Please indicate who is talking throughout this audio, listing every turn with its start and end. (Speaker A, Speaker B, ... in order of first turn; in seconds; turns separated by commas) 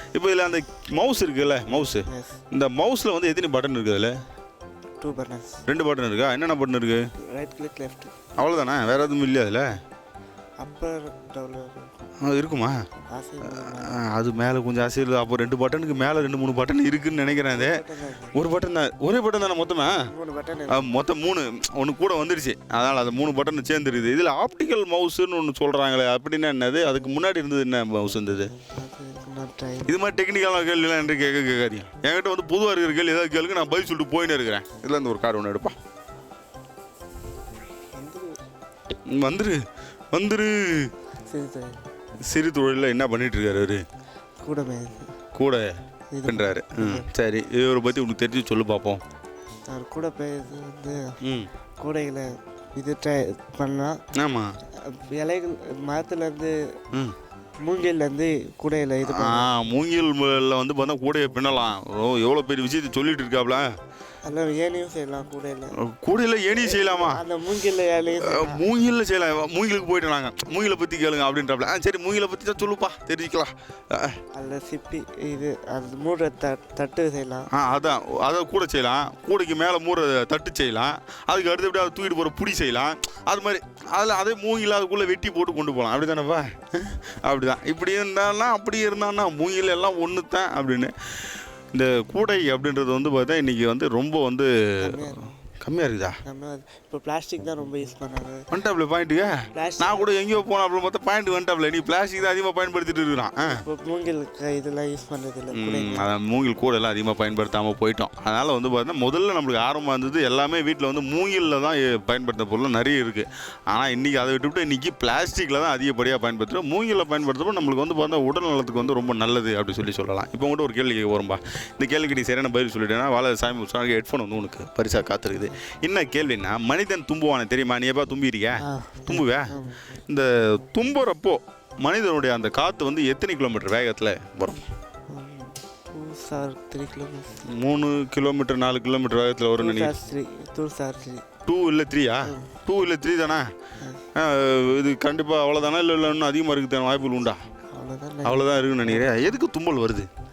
Speaker A: 0.1-4.1, Speaker B: 2.0-2.4, Speaker B: 5.0-5.6, Speaker A: 5.7-7.0, Speaker B: 7.3-8.3, Speaker A: 8.3-9.7, Speaker B: 10.6-11.9, Speaker A: 12.2-12.8, Speaker B: 13.1-14.0, Speaker A: 13.5-17.7, Speaker B: 17.3-18.4, Speaker A: 18.3-20.0, Speaker B: 20.0-20.9, Speaker A: 20.7-28.5, Speaker B: 28.6-29.9, Speaker A: 29.9-35.8, Speaker B: 37.9-38.4, Speaker A: 39.1-39.6, Speaker A: 40.1-40.9, Speaker B: 41.3-41.8, Speaker A: 42.2-43.8, Speaker B: 44.4-45.1, Speaker A: 45.3-45.6, Speaker B: 46.1-47.1, Speaker A: 46.2-49.0, Speaker B: 49.7-51.0, Speaker A: 51.2-51.5, Speaker B: 51.8-54.0, Speaker A: 54.1-54.5, Speaker B: 54.8-56.5, Speaker B: 57.6-59.5, Speaker A: 59.0-63.7, Speaker B: 64.2-65.7, Speaker A: 65.8-67.2, Speaker B: 66.5-68.7, Speaker A: 68.2-74.2, Speaker B: 74.3-77.5, Speaker A: 77.5-90.9, Speaker A: 91.7-95.0, Speaker B: 94.8-95.3, Speaker A: 95.6-96.2, Speaker B: 96.2-98.5, Speaker A: 98.5-103.6, Speaker B: 99.5-100.1, Speaker B: 103.4-106.1, Speaker A: 105.5-129.5, Speaker B: 128.6-129.8, Speaker A: 130.1-134.6, Speaker B: 135.1-137.4, Speaker A: 137.5-139.9, Speaker B: 139.6-141.2, Speaker A: 141.5-143.4, Speaker B: 142.2-142.5, Speaker A: 144.1-147.4, Speaker B: 147.7-149.3, Speaker A: 148.2-150.1